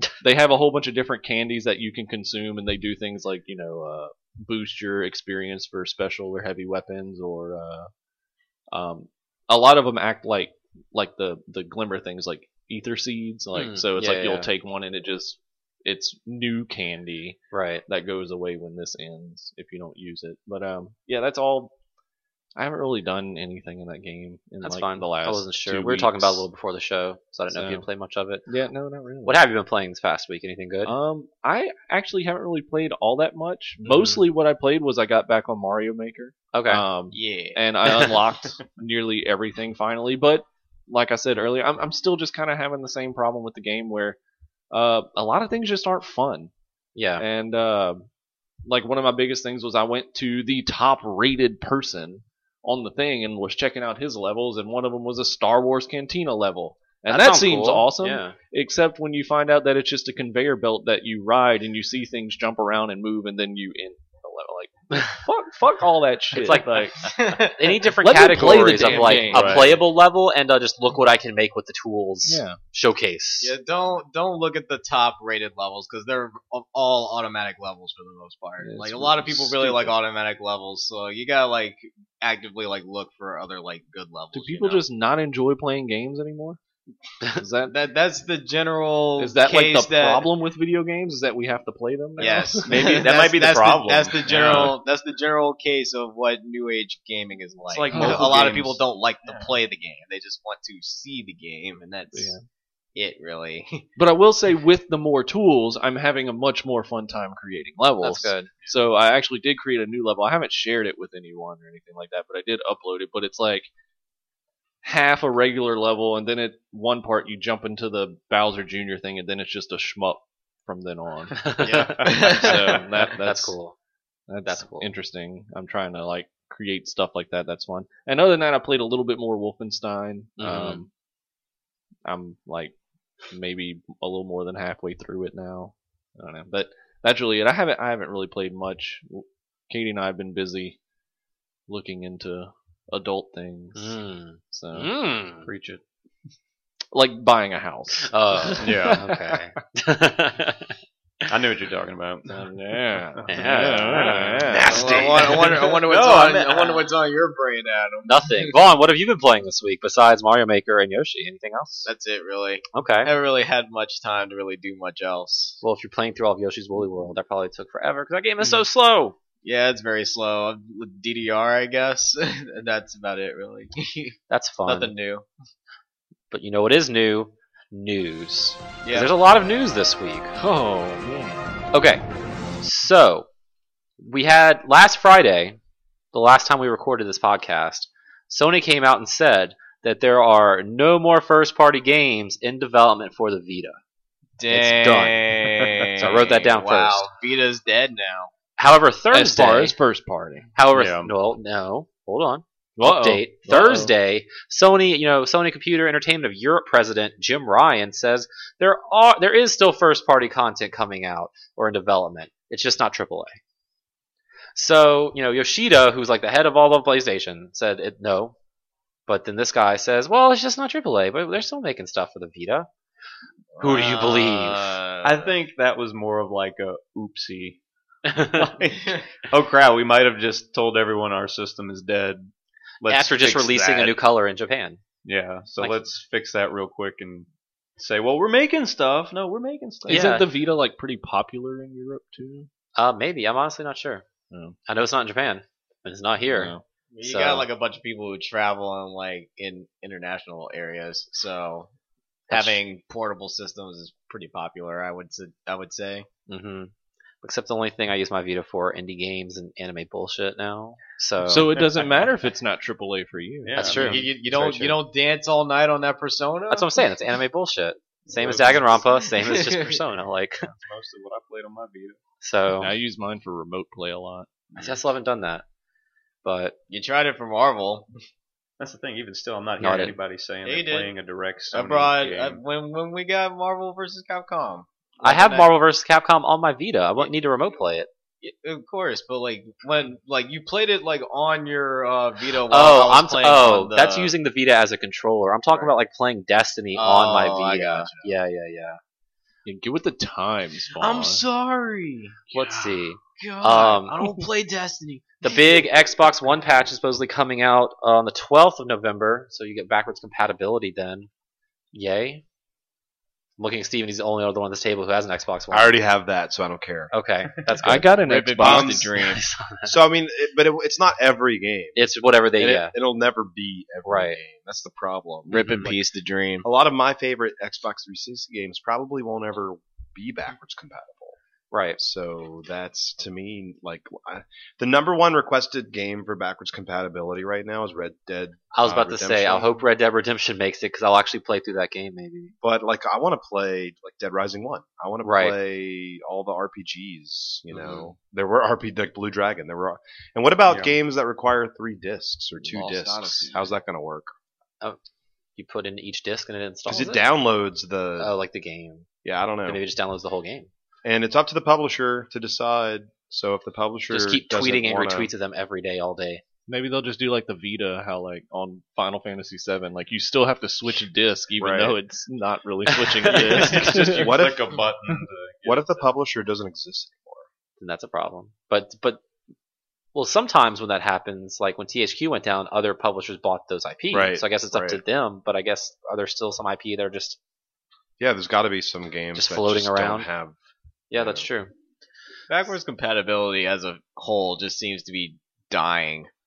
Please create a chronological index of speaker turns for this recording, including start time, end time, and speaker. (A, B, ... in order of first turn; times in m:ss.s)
0:00.2-0:07.9 A
0:08.7-0:21.7 A
0:13.5-0:14.5 B
0:17.5-0:17.8 B
0:22.6-0:26.4 A
0:24.6-0:28.4 B
0:27.5-0:27.8 A
0:28.4-0:29.4 A
0:29.2-0:30.9 B
0:30.8-0:44.2 A
0:33.8-0:34.2 B
0:36.5-0:36.8 B
0:37.1-0:37.6 C
0:44.7-0:46.5 A
0:46.9-0:47.2 B
0:47.2-0:48.0 A
0:48.6-1:07.1 A
0:57.1-0:58.4 B
1:06.3-1:13.5 B
1:07.1-1:07.8 C
1:08.0-1:09.8 A
1:09.2-1:09.8 D
1:12.2-1:12.6 A
1:13.4-1:24.8 C
1:18.6-1:19.9 A
1:24.3-1:26.6 A
1:27.2-1:27.7 A
1:27.6-1:30.2 C
1:29.2-1:32.8 A
1:32.2-1:34.8 D
1:32.2-1:42.3 C
1:34.3-1:34.8 A
1:37.7-1:39.6 D
1:37.9-1:38.4 A
1:42.1-1:42.4 A
1:42.9-1:43.8 C
1:44.0-1:53.7 A
1:48.0-1:48.5 B
1:54.8-2:03.5 A
2:01.4-2:01.9 B
2:01.6-2:02.8 C
2:01.7-2:02.3 D
2:03.0-2:03.8 B
2:04.3-2:10.9 A
2:04.4-2:04.9 B
2:10.4-2:10.8 B
2:12.0-2:12.7 A
2:13.3-2:20.8 A
2:21.7-2:24.9 A
2:23.7-2:25.5 B
2:25.4-2:25.8 D
2:26.9-2:28.1 A
2:28.1-2:30.7 B
2:28.6-2:29.2 D
2:31.3-2:32.3 D
2:32.3-2:34.9 A
2:33.1-2:34.3 D
2:33.3-2:34.7 B
2:34.5-2:35.4 E
2:34.7-2:38.5 C
2:34.9-2:36.9 D
2:38.0-2:41.9 B
2:41.8-2:45.6 C
2:42.7-2:43.1 B
2:45.6-2:49.2 B
2:49.4-2:55.2 C
2:54.3-2:54.9 B
2:56.3-3:00.3 B
2:58.8-2:59.1 C
3:00.4-3:01.6 A
3:01.7-3:02.0 B
3:02.6-3:03.2 B
3:04.0-3:05.6 B
3:06.1-3:13.8 B
3:14.4-3:18.3 C
3:14.5-3:15.3 B
3:15.6-3:16.1 D
3:16.0-3:17.1 B
3:18.6-3:19.7 B
3:19.1-3:20.5 A
3:20.6-3:33.4 B
3:20.7-3:21.1 D
3:22.8-3:23.9 A
3:34.6-3:38.3 B
3:39.1-3:42.7 B
3:43.6-3:45.4 C
3:43.6-3:44.8 B
3:45.0-3:52.3 D
3:48.1-3:48.5 B
3:52.8-3:54.0 D
3:52.9-3:54.8 B
3:55.0-3:57.3 D
3:57.8-4:00.1 D
3:59.8-4:02.5 A
3:59.9-4:00.3 B
4:02.8-4:04.0 B
4:04.3-4:04.6 A
4:04.7-4:07.5 B
4:06.3-4:06.6 A
4:06.9-4:11.7 C
4:12.3-4:12.6 B
4:12.3-4:16.1 C
4:16.3-4:16.7 B
4:17.2-4:21.5 B
4:21.2-4:23.6 A
4:23.4-4:24.1 D
4:23.6-4:24.8 B
4:23.6-4:26.9 C
4:26.5-4:30.4 B
4:28.2-4:28.8 D
4:28.2-4:29.8 C
4:30.4-4:32.0 D
4:32.2-4:32.7 B
4:32.6-4:34.3 A
4:34.5-4:35.4 B
4:36.2-4:36.5 B
4:36.7-4:37.9 C
4:38.6-4:42.4 D
4:39.6-4:39.9 B
4:40.4-4:40.9 C
4:41.5-4:45.5 C
4:45.0-4:47.9 B
4:48.2-4:54.1 C
4:52.5-4:58.8 B
4:56.7-4:58.1 C
4:59.4-5:01.2 A
5:00.7-5:05.9 C
5:02.3-5:04.1 B
5:05.2-5:11.1 B
5:11.7-5:12.2 B
5:13.4-5:15.8 B
5:15.5-5:16.9 E
5:16.9-5:19.7 B
5:17.6-5:18.9 A
5:18.0-5:19.2 C
5:18.4-5:18.9 E
5:19.6-5:24.9 E
5:21.8-5:22.7 B
5:23.8-5:24.2 B
5:24.7-5:26.4 C
5:25.4-5:25.7 B
5:26.4-5:31.2 E
5:31.5-5:31.8 B
5:31.8-5:39.5 E
5:38.5-5:42.3 B
5:42.4-5:54.1 E
5:45.0-5:45.3 B
5:50.5-5:50.7 D
5:52.4-5:53.5 A
5:55.4-5:57.0 B
5:56.7-5:58.1 E
5:58.0-5:58.9 B
5:59.0-5:59.6 E
5:59.4-6:00.5 B
6:00.8-6:05.1 E
6:03.9-6:06.2 B
6:06.5-6:14.1 A
6:11.4-6:11.7 E
6:12.8-6:13.6 B
6:13.0-6:15.9 D
6:13.9-6:14.6 E
6:15.4-6:17.3 E
6:17.6-6:19.0 B
6:19.9-6:27.2 B
6:23.9-6:24.8 E
6:28.0-6:30.4 E
6:29.1-6:30.1 B
6:30.9-6:31.5 B
6:30.9-6:31.3 E
6:32.3-6:36.1 C